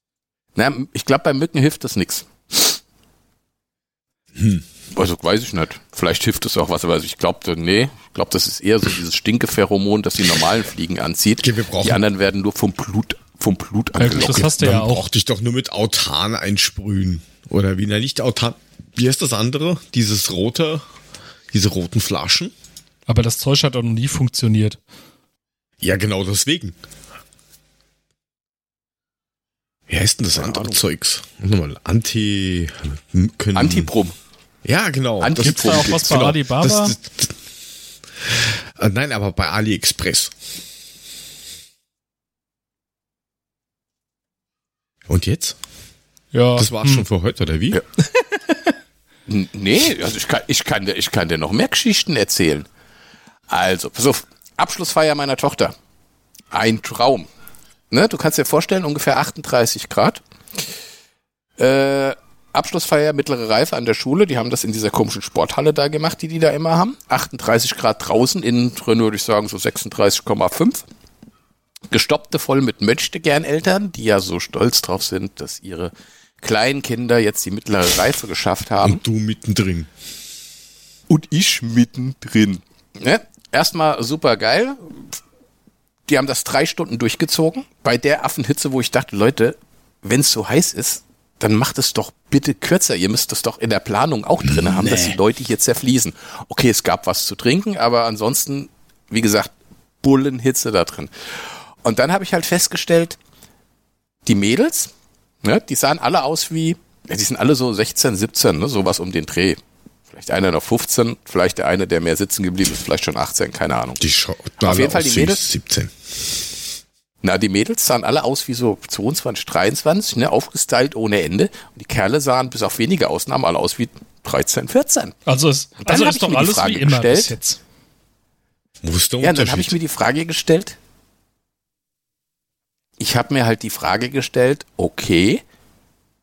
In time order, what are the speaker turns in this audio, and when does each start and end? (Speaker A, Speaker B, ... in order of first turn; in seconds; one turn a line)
Speaker A: 0.6-2.8
Speaker B: 4.4-4.7
Speaker A: 5.0-14.4
Speaker B: 11.4-12.0
Speaker C: 14.0-15.0
Speaker B: 14.1-20.9
Speaker B: 21.5-22.5
Speaker C: 23.1-24.8
Speaker B: 25.8-26.8
Speaker B: 29.9-33.9
Speaker A: 30.4-30.8
Speaker A: 33.5-34.2
Speaker B: 34.6-37.4
Speaker A: 35.2-36.3
Speaker C: 35.4-37.0
Speaker B: 38.3-40.3
Speaker B: 45.1-45.6
Speaker C: 46.3-47.0
Speaker B: 46.6-47.8
Speaker A: 49.3-52.7
Speaker A: 53.5-55.7
Speaker A: 56.5-57.3
Speaker A: 57.9-60.2
Speaker A: 61.6-70.8
Speaker A: 71.9-79.0
Speaker B: 78.8-79.9
Speaker A: 81.1-85.2
Speaker A: 86.1-103.2
Speaker B: 94.4-95.2
Speaker A: 104.3-104.9
Speaker A: 105.4-109.6
Speaker A: 110.1-114.0
Speaker B: 114.0-115.9
Speaker A: 114.6-115.4
Speaker A: 117.2-125.2
Speaker C: 125.3-127.6
Speaker A: 125.8-127.3
Speaker B: 128.8-129.8
Speaker A: 129.2-130.8
Speaker A: 133.0-135.4